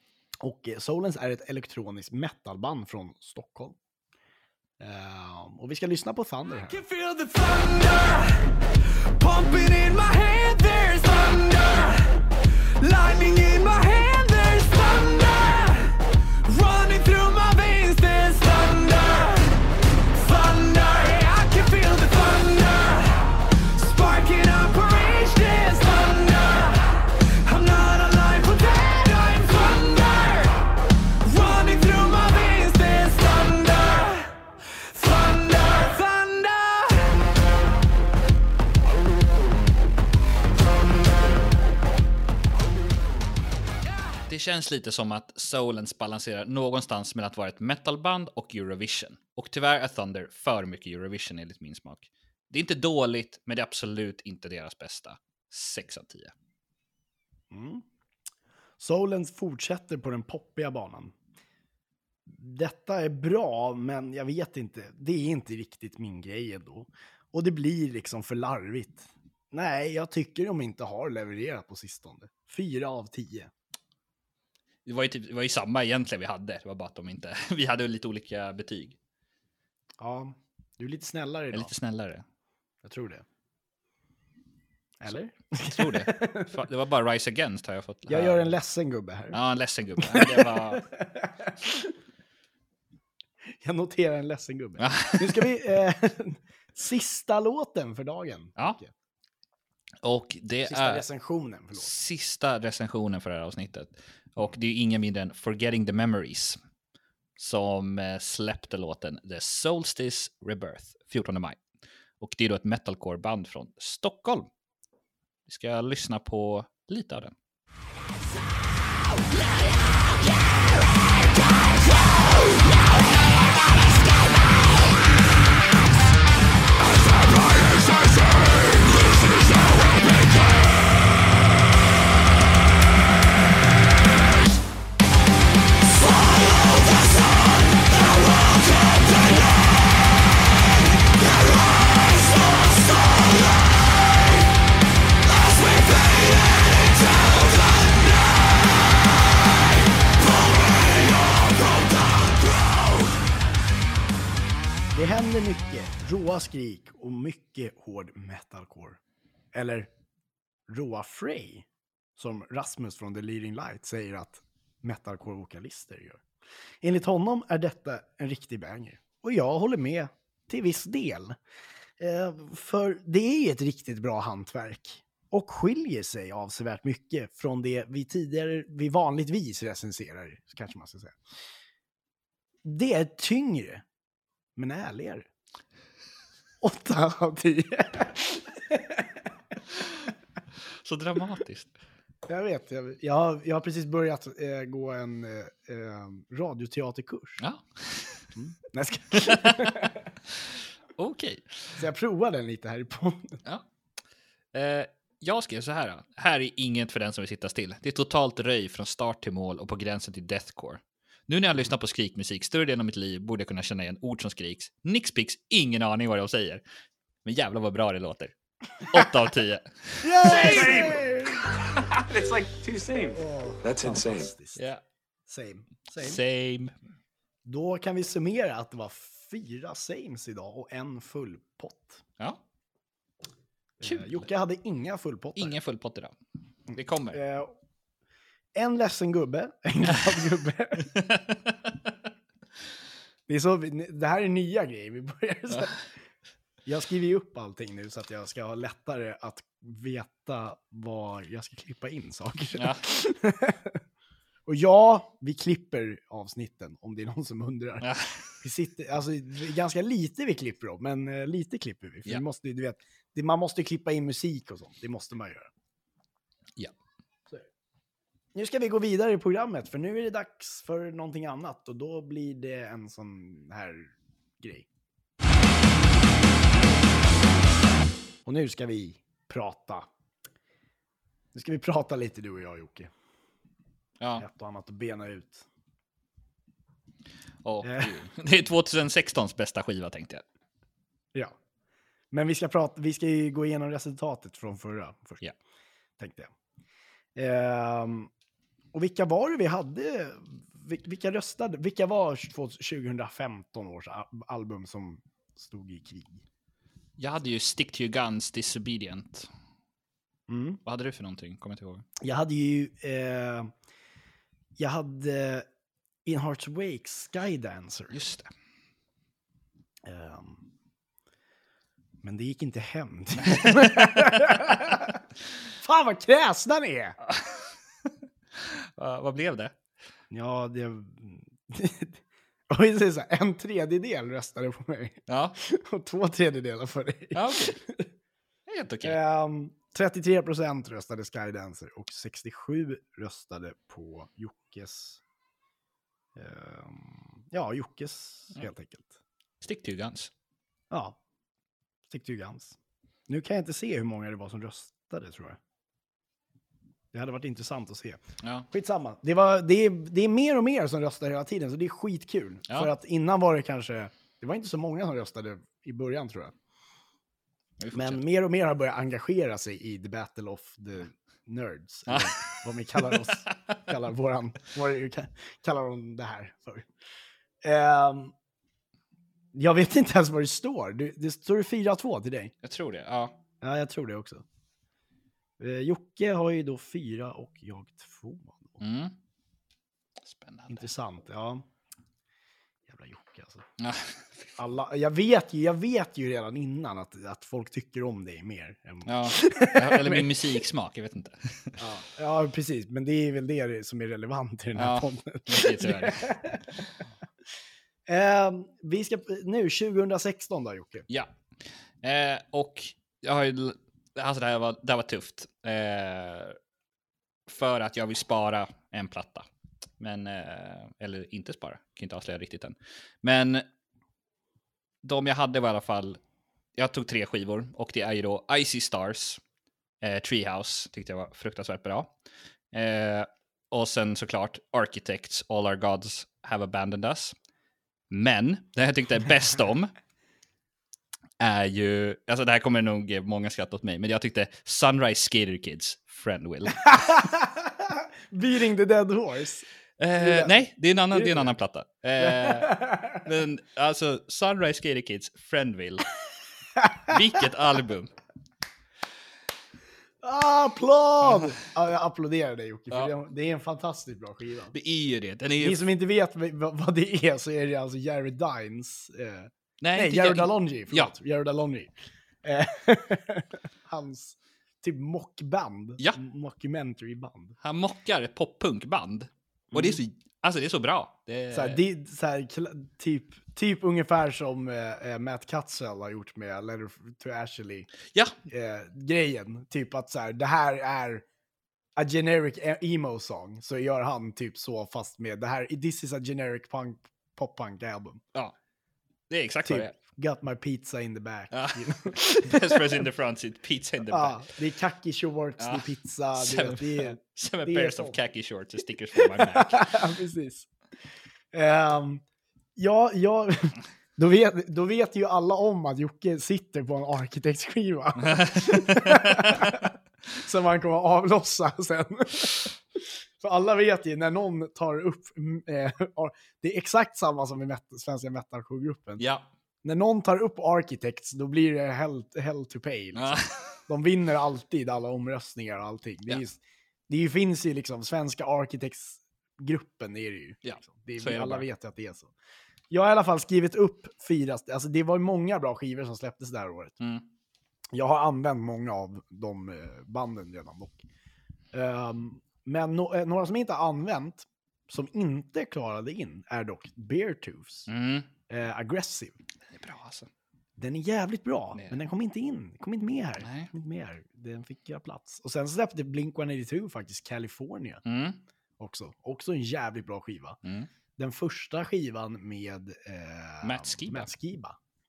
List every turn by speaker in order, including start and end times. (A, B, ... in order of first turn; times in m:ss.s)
0:00.4-0:03.8 A
0:04.8-0:06.8 A
0:06.6-0:08.5 B
0:09.2-0:12.2 B
0:12.8-0:15.9 B
0:16.4-0:19.6 B
0:20.2-0:23.2 B
0:23.8-0:30.5 B
0:31.2-0:34.3 B
0:34.9-0:37.1 B
0:44.3-0:56.3 C
0:57.5-0:57.8 A
0:58.8-1:01.1 A
1:02.3-1:13.5 A
1:14.8-1:19.0 C
1:20.0-1:21.7 A
1:21.5-1:22.2 C
1:22.8-1:23.2 A
1:25.0-1:26.6 A
1:25.6-1:28.5 C
1:28.1-1:29.4 A
1:29.3-1:30.8 C
1:30.0-1:31.9 A
1:33.6-1:38.9 A
1:34.8-1:35.5 C
1:40.0-1:41.0 C
1:40.6-1:41.9 A
1:41.8-1:46.6 C
1:47.4-1:51.6 C
1:52.2-1:54.5 C
1:55.5-1:57.3 C
2:16.6-2:17.1 B
2:25.5-2:26.8 B
2:34.9-2:39.0 A
2:39.5-2:39.9 A
2:40.7-2:41.6 A
2:42.2-2:46.2 A
2:46.8-2:51.4 A
2:52.0-3:01.2 A
3:02.6-3:03.8 A
3:04.6-3:05.3 A
3:06.6-3:09.1 A
3:10.8-3:11.7 C
3:12.3-3:17.4 A
3:17.4-3:18.3 C
3:18.4-3:19.9 A
3:19.1-3:19.7 C
3:21.0-3:21.8 C
3:21.7-3:23.4 A
3:24.5-3:36.6 C
3:37.2-3:40.8 C
3:40.0-3:41.4 A
3:40.2-3:44.2 D
3:43.1-3:44.6 A
3:44.6-3:44.8 C
3:45.3-3:46.2 A
3:46.0-3:46.7 C
3:47.4-3:52.0 A
3:53.8-3:55.6 A
3:53.8-3:54.3 C
3:55.4-3:56.2 C
3:56.7-3:57.5 A
3:56.7-3:57.2 C
3:58.5-4:01.0 A
4:00.9-4:01.7 C
4:03.3-4:05.8 A
4:06.6-4:13.7 A
4:12.5-4:12.8 C
4:14.5-4:17.9 A
4:17.8-4:18.2 C
4:18.4-4:25.5 A
4:28.3-4:34.6 A
4:38.2-4:39.9 A
4:41.3-4:42.9 A
4:44.2-4:45.4 A
4:47.4-4:50.2 C
4:47.6-4:47.9 A
4:52.1-4:55.2 A
4:56.0-4:56.3 A
4:57.2-4:58.1 A
4:58.7-5:06.2 A
5:07.0-5:09.3 C
5:10.3-5:10.6 A
5:10.6-5:11.8 C
5:12.0-5:13.5 A
5:14.6-5:15.5 A
5:16.0-5:18.0 A
5:17.9-5:18.3 C
5:19.8-5:20.4 A
5:22.0-5:25.0 A
5:23.3-5:24.1 C
5:25.6-5:27.0 A
5:27.1-5:27.4 C
5:28.4-5:29.5 C
5:30.1-5:32.0 A
5:32.5-5:37.9 A
5:35.1-5:35.4 C
5:37.1-5:37.6 C
5:38.5-5:39.0 C
5:38.8-5:45.0 A
5:46.2-5:49.0 A
5:49.4-5:50.1 C
5:50.7-5:51.0 A
5:51.9-5:52.6 A
5:53.1-5:55.4 A
5:56.9-6:06.3 A
5:58.2-5:58.5 C
6:07.6-6:08.0 C
6:07.7-6:16.7 A
6:11.9-6:12.2 C
6:12.8-6:13.3 C
6:17.4-6:18.1 A
6:19.3-6:22.3 A
6:22.4-6:23.1 C
6:23.4-6:24.2 A
6:25.4-6:28.5 A
6:28.6-6:28.9 C
6:30.0-6:30.7 C
6:30.5-6:31.4 A
6:32.7-6:33.4 A
6:33.6-6:34.3 C
6:34.4-6:40.1 A
6:38.8-6:41.6 C
6:41.6-6:46.6 A
6:44.5-6:46.1 C
6:47.9-6:50.8 A
6:51.8-6:56.4 C
6:57.3-6:59.3 C
6:59.8-7:03.4 C
7:04.8-7:06.0 C
7:06.6-7:09.2 C
7:09.8-7:11.9 C
7:12.5-7:17.1 C
7:17.9-7:19.7 C
7:21.2-7:27.0 C
7:26.6-7:29.5 A
7:29.8-7:35.9 C
7:30.0-7:30.3 A
7:30.9-7:31.3 A
7:32.0-7:33.0 A
7:36.6-7:36.9 A
7:36.9-7:37.9 C
7:40.0-7:44.5 A
7:41.0-7:41.3 C
7:44.5-7:45.7 C
7:45.4-7:51.7 A
7:49.6-7:50.9 C
7:52.2-7:57.4 A
7:57.4-8:01.6 C
7:59.5-7:59.8 A
8:01.3-8:07.7 A
8:08.3-8:11.0 A
8:11.8-8:18.0 A
8:19.1-8:19.7 C
8:19.4-8:22.7 A
8:21.3-8:24.2 C
8:23.9-8:28.0 A
8:25.4-8:29.7 C
8:29.0-8:30.5 A
8:31.3-8:32.0 A
8:32.6-8:42.5 A
8:38.0-8:39.7 C
8:43.2-8:49.0 A
8:49.0-8:49.3 C
8:49.6-9:02.1 A
8:52.9-8:53.6 C
9:00.4-9:01.5 C
9:02.7-9:06.8 A
9:06.8-9:07.0 C
9:07.7-9:10.8 A
9:11.5-9:17.7 A
9:17.7-9:18.1 C
9:18.3-9:19.2 A
9:19.5-9:20.1 C
9:20.6-9:27.8 A
9:21.5-9:21.8 C
9:23.2-9:23.5 C
9:27.8-9:28.2 C
9:28.6-9:30.4 A
9:30.4-9:30.7 C
9:31.0-9:34.6 A
9:33.4-9:34.1 C